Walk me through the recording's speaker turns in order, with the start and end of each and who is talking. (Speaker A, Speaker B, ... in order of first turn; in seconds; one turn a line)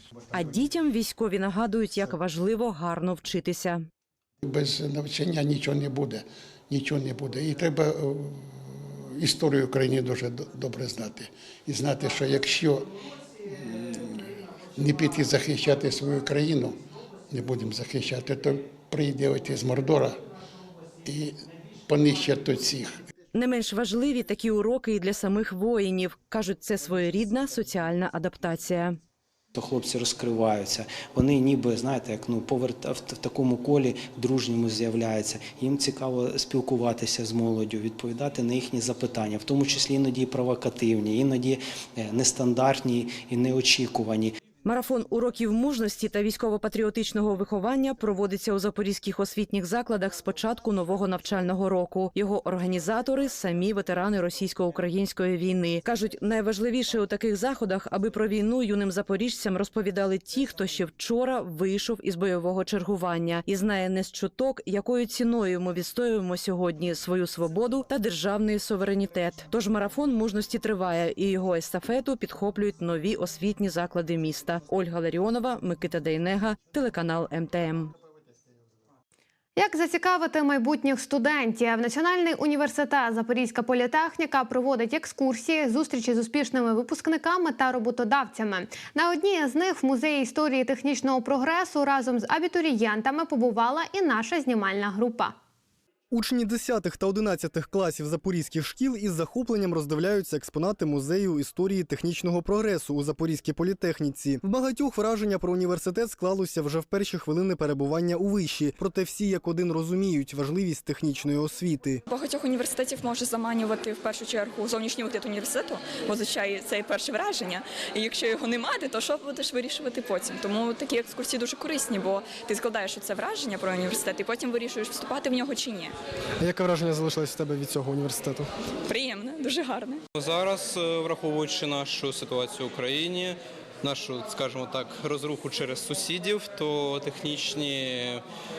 Speaker A: 0.3-3.8
Speaker B: 4.4-12.9
Speaker B: 13.5-16.8
Speaker B: 17.3-20.2
Speaker B: 21.0-23.0
Speaker A: 23.3-29.0
Speaker C: 29.5-44.4
Speaker A: 44.6-77.9
Speaker D: 79.5-95.3
Speaker E: 96.1-112.0
Speaker F: 112.1-125.9
Speaker E: 126.4-128.5
Speaker F: 128.9-130.0
Speaker G: 130.1-138.2